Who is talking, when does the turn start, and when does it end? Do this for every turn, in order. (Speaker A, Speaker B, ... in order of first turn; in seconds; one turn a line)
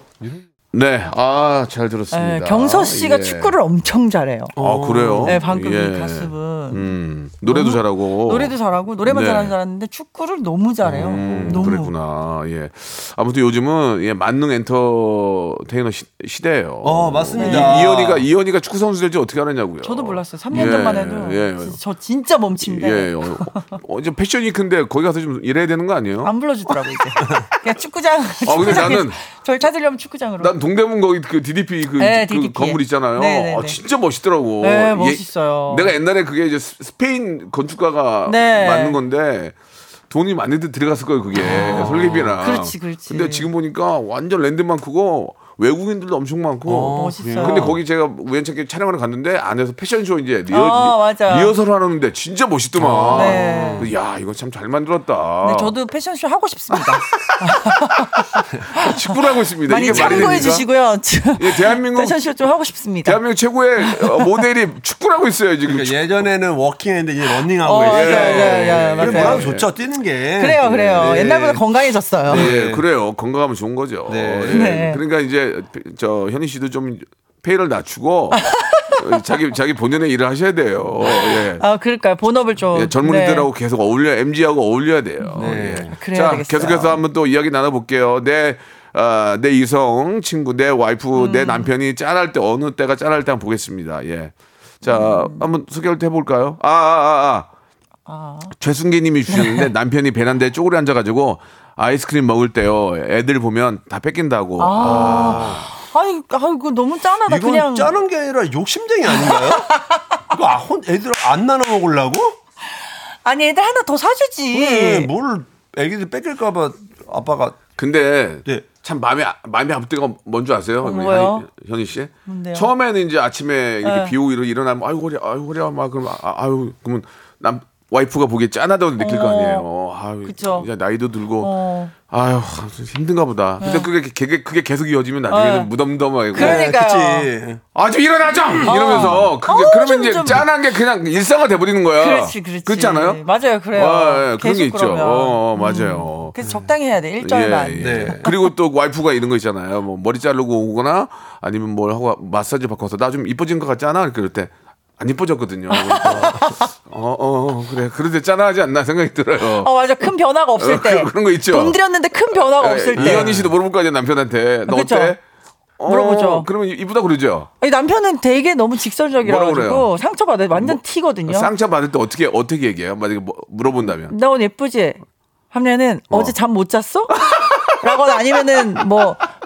Speaker A: 0.7-3.5
Speaker B: 2.1-4.5
Speaker C: 4.5-5.4
Speaker A: 4.6-9.5
Speaker B: 5.2-6.8
Speaker B: 7.5-11.9
Speaker A: 10.8-21.8
Speaker C: 10.9-11.7
Speaker C: 16.8-18.2
Speaker B: 17.4-17.8
Speaker B: 19.8-23.8
Speaker C: 20.5-20.9
Speaker A: 22.6-26.3
Speaker B: 26.2-30.5
Speaker A: 28.4-29.2
Speaker A: 30.4-39.5
Speaker B: 32.0-33.8
Speaker B: 34.6-35.9
Speaker B: 38.2-39.0
Speaker A: 40.1-55.7
Speaker C: 41.4-42.4
Speaker B: 41.4-43.5
Speaker C: 46.6-47.8
Speaker B: 46.9-47.7
Speaker B: 50.5-51.5
Speaker C: 52.8-53.9
Speaker B: 53.1-53.9
Speaker B: 55.4-59.1
Speaker A: 58.7-60.6
Speaker B: 59.6-63.2
Speaker C: 59.9-60.6
Speaker A: 61.4-62.2
Speaker A: 63.0-66.1
Speaker B: 63.8-64.3
Speaker C: 65.7-71.6
Speaker B: 67.6-69.5
Speaker A: 67.8-69.7
Speaker B: 70.4-72.5
Speaker A: 70.6-71.2
Speaker C: 72.2-72.8
Speaker A: 72.3-81.6
Speaker C: 74.1-74.8
Speaker B: 74.5-75.0
Speaker B: 78.3-79.0
Speaker B: 81.6-83.5
Speaker A: 82.7-97.5
Speaker B: 85.2-87.0
Speaker C: 85.4-85.9
Speaker B: 91.2-91.7
Speaker B: 94.8-95.5
Speaker B: 98.1-98.5
Speaker A: 98.6-105.6
Speaker B: 99.3-99.7
Speaker B: 104.6-107.9
Speaker C: 104.8-105.6
Speaker C: 107.2-109.7
Speaker B: 109.1-109.8
Speaker C: 110.3-112.4
Speaker B: 113.2-115.1
Speaker C: 114.5-117.6
Speaker A: 117.8-131.5
Speaker B: 120.8-121.5
Speaker B: 122.3-122.7
Speaker B: 123.8-124.1
Speaker B: 129.0-129.7
Speaker B: 130.2-130.7
Speaker B: 131.4-131.9
Speaker A: 132.1-136.6
Speaker B: 133.6-133.9
Speaker B: 135.3-135.7
Speaker B: 136.3-137.3
Speaker C: 136.3-137.6
Speaker A: 137.7-143.2
Speaker B: 138.6-140.5
Speaker C: 138.7-139.3
Speaker B: 142.0-148.4
Speaker A: 143.7-146.3
Speaker A: 147.2-159.7
Speaker C: 147.8-148.3
Speaker B: 155.7-156.6
Speaker C: 156.1-156.4
Speaker B: 159.6-163.3
Speaker A: 160.6-161.8
Speaker A: 162.3-165.2
Speaker C: 162.9-163.5
Speaker B: 164.7-165.2
Speaker A: 165.8-167.5
Speaker B: 165.9-166.5
Speaker B: 167.6-171.5
Speaker A: 169.2-169.9
Speaker A: 170.6-174.1
Speaker B: 174.0-175.0
Speaker B: 175.5-179.3
Speaker A: 177.3-177.7